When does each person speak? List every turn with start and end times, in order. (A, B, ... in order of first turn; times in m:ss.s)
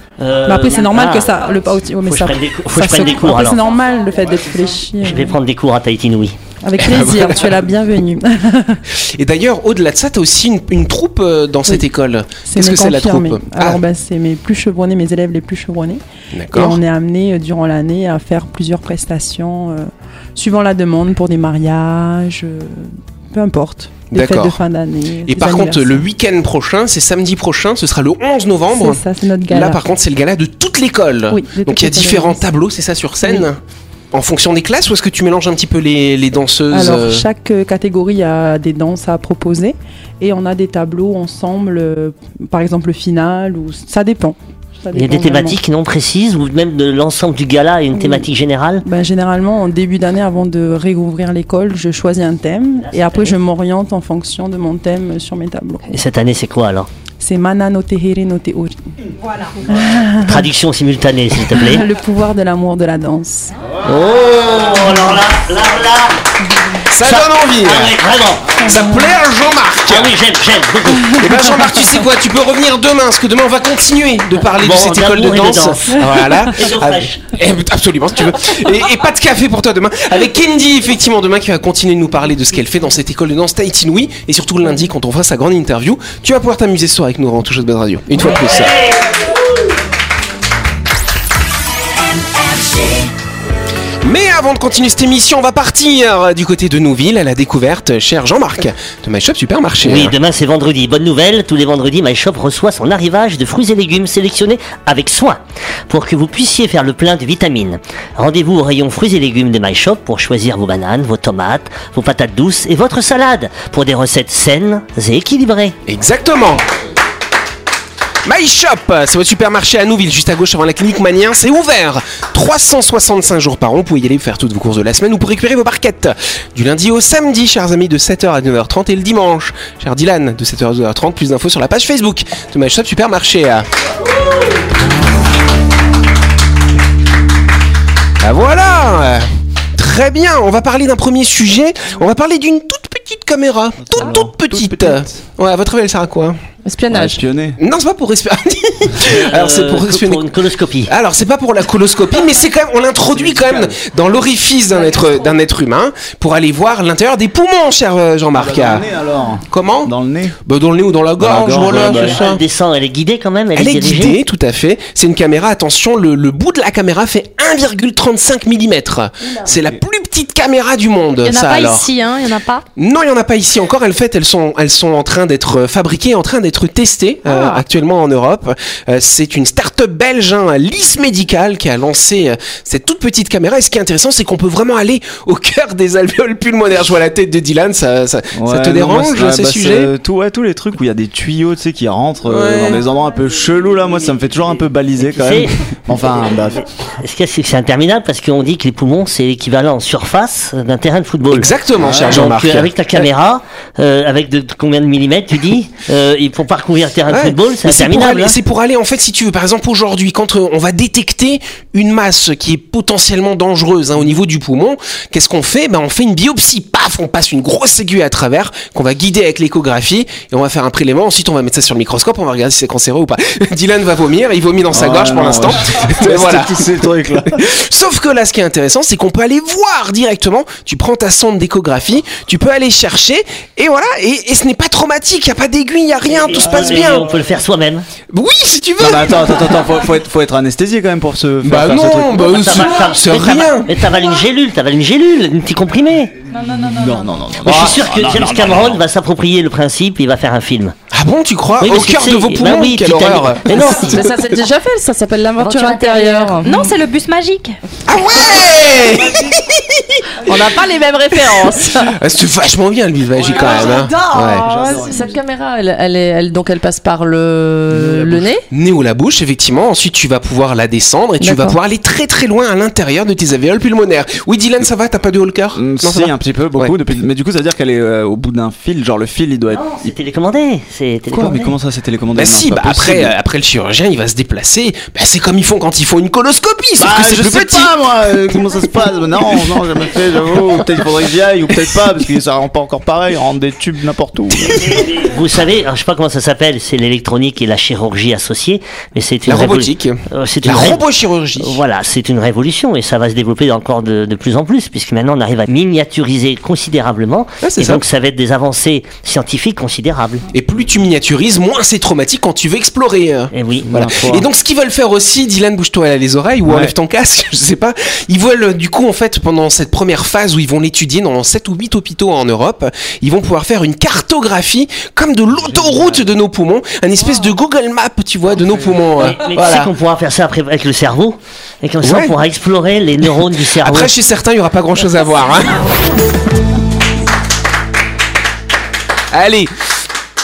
0:00.2-0:03.6 A
0:00.4-0:05.4 B
0:05.0-0:06.4 A
0:06.6-0:08.8 B
0:06.8-0:07.6 C
0:08.9-0:13.8 C
0:12.4-0:16.0 B
0:16.3-0:16.8 C
0:16.5-0:26.0 B
0:24.1-0:24.6 C
0:25.2-0:33.6 C
0:28.7-0:29.8 B
0:31.3-0:32.4 B
0:34.1-0:37.2 C
0:36.7-0:45.6 B
0:44.9-0:48.8 A
0:47.9-0:48.3 B
0:48.8-0:55.9 B
0:52.8-0:53.4 A
0:55.9-0:56.9 A
0:57.2-0:58.8 B
0:59.3-0:59.5 D
0:59.7-1:00.5 B
1:00.2-1:01.8 A
1:01.4-1:03.5 B
1:03.8-1:06.2 A
1:06.9-1:08.0 C
1:07.0-1:09.0 A
1:08.6-1:10.2 C
1:09.8-1:11.3 A
1:11.0-1:28.8 C
1:14.4-1:17.2 A
1:34.0-1:40.1 C
1:39.8-1:55.7 A
1:55.9-1:56.6 C
1:58.2-2:13.7 C
2:18.2-2:26.4 C
2:23.8-2:25.2 E
2:26.6-2:27.2 F
2:26.9-2:27.6 E
2:27.6-2:30.3 C
2:29.0-2:30.9 A
2:30.9-2:38.8 C
2:33.1-2:33.8 E
2:34.7-2:35.4 D
2:38.3-2:40.4 E
2:39.5-2:39.9 C
2:40.4-2:42.4 C
2:41.2-2:42.2 E
2:41.4-2:44.2 A
2:43.6-2:51.9 C
2:49.5-2:49.8 E
2:51.2-2:52.6 D
2:52.8-3:09.9 C
2:57.3-2:57.6 D
3:08.3-3:16.6 E
3:12.3-3:12.8 C
3:15.0-3:15.5 A
3:17.0-3:28.4 A
3:21.3-3:22.7 C
3:21.8-3:22.3 E
3:27.1-3:46.6 C
3:44.7-3:47.4 E
3:47.4-3:57.1 C
3:56.2-3:57.8 A
3:58.1-3:59.6 C
3:58.8-4:02.6 E
4:01.4-4:03.8 C
4:02.2-4:06.2 A
4:06.3-4:07.1 D
4:06.5-4:08.8 E
4:07.4-4:10.7 A
4:10.9-4:14.1 C
4:11.6-4:14.0 A
4:13.8-4:16.7 F
4:15.4-4:17.6 D
4:17.9-4:20.3 C
4:19.0-4:19.4 E
4:20.2-4:21.9 F
4:21.8-4:24.4 C
4:23.1-4:25.2 E
4:24.2-4:24.9 D
4:24.7-4:28.4 F
4:27.7-4:28.3 E
4:28.5-4:36.7 C
4:31.2-4:31.6 F
4:35.5-4:39.9 E
4:39.5-4:41.5 A
4:41.1-4:43.1 E
4:42.1-4:47.7 C
4:46.8-4:54.8 E
4:54.5-5:00.8 A
4:59.3-5:01.6 C
5:01.4-5:10.3 A
5:07.4-5:07.8 C
5:10.3-5:29.7 C
5:13.3-5:13.7 A
5:13.6-5:14.3 E
5:16.4-5:16.7 E
5:25.3-5:26.1 E
5:28.4-5:28.7 E
5:29.0-5:33.9 A
5:31.8-5:32.1 C
5:33.6-5:35.6 C
5:39.1-5:39.5 C